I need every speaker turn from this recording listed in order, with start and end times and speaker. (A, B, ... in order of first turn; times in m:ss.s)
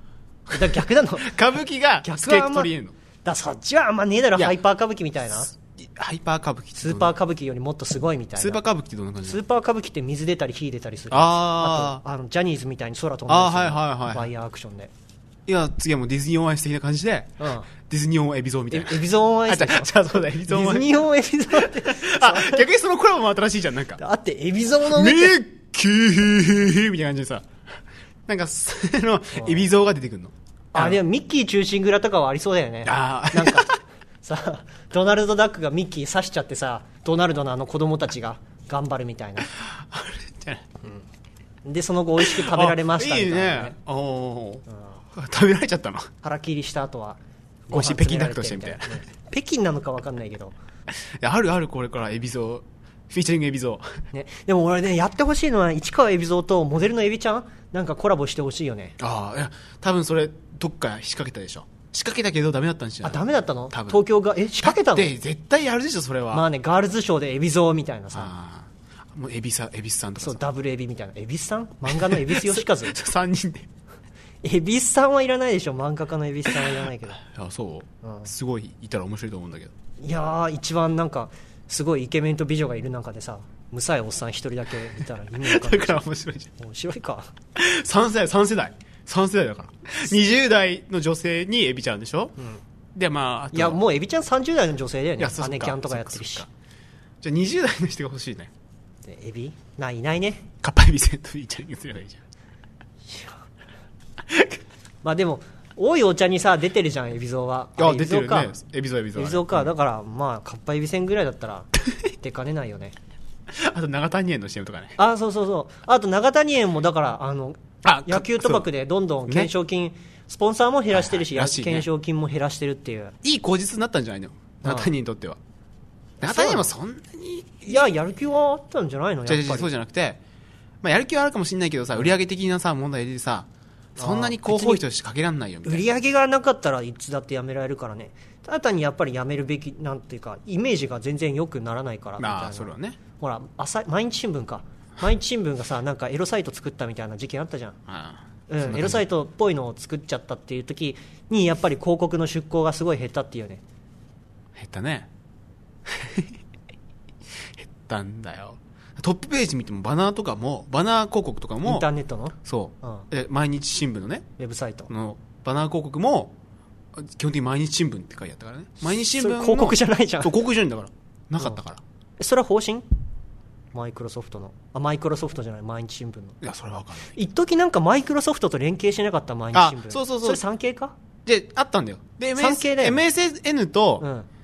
0:00.5-0:03.0 A
0:00.5-0:01.4 B
0:02.0-0:02.7 B
0:03.2-0:05.5 B
0:05.5-0:07.1 A
0:06.8-0:08.6 B
0:08.4-0:09.4 A
0:09.2-0:14.9 B
0:11.1-0:12.0 A
0:13.3-0:14.3 A
0:15.5-0:21.0 A
0:17.4-0:17.7 B
0:18.7-0:22.6 B
0:21.5-0:24.0 A
0:24.0-0:25.4 B
0:24.8-0:27.5 A
0:28.3-0:31.0 A
0:29.4-0:29.7 B
0:30.7-0:39.5 B
0:32.8-0:33.8 A
0:39.5-0:40.8 A
0:41.6-0:43.8 B
0:42.2-0:46.1 A
0:44.7-0:45.0 B
0:46.2-0:50.6 B
0:47.7-0:49.0 A
0:50.9-0:54.0 A
0:54.1-0:59.0 B
0:59.0-1:04.0 A
1:03.0-1:05.1 B
1:04.6-1:06.5 A
1:06.3-1:08.3 B
1:08.1-1:10.5 A
1:10.2-1:13.0 B
1:11.9-1:13.7 A
1:14.4-1:17.2 B
1:16.6-1:19.7 A
1:18.0-1:18.3 B
1:20.0-1:26.1 B
1:25.3-1:26.5 A
1:26.6-1:27.3 B
1:27.6-1:32.4 A
1:33.0-1:33.8 A
1:33.5-1:36.5 B
1:35.2-1:36.5 A
1:37.2-1:38.5 A
1:39.0-1:40.5 B
1:40.6-1:42.2 A
1:43.1-1:43.4 B
1:44.3-1:44.6 A
1:45.0-1:48.6 B
1:47.8-1:49.7 A
1:49.2-1:53.0 B
1:53.5-1:55.0 A
1:55.0-2:03.2 B
1:57.8-1:58.7 A
2:00.9-2:01.9 A
2:03.2-2:05.4 A
2:04.6-2:04.9 B
2:06.2-2:06.7 B
2:06.2-2:07.9 A
2:07.7-2:09.7 B
2:09.3-2:10.2 A
2:10.8-2:15.8 A
2:14.0-2:14.8 B
2:15.6-2:27.8 B
2:22.2-2:23.0 A
2:27.9-2:29.0 A
2:28.5-2:33.6 B
2:34.6-2:35.1 A
2:35.9-2:36.4 A
2:37.6-2:41.9 A
2:41.6-2:43.1 B
2:42.4-2:44.3 A
2:44.4-2:44.9 B
2:44.9-2:46.4 A
2:47.0-2:51.8 A
2:49.0-2:50.3 B
2:52.2-2:52.8 B
2:53.7-2:56.4 B
2:56.4-2:57.2 A
2:57.1-3:01.0 B
2:59.5-3:00.4 A
3:01.3-3:04.1 A
3:02.4-3:03.0 B
3:04.0-3:04.3 B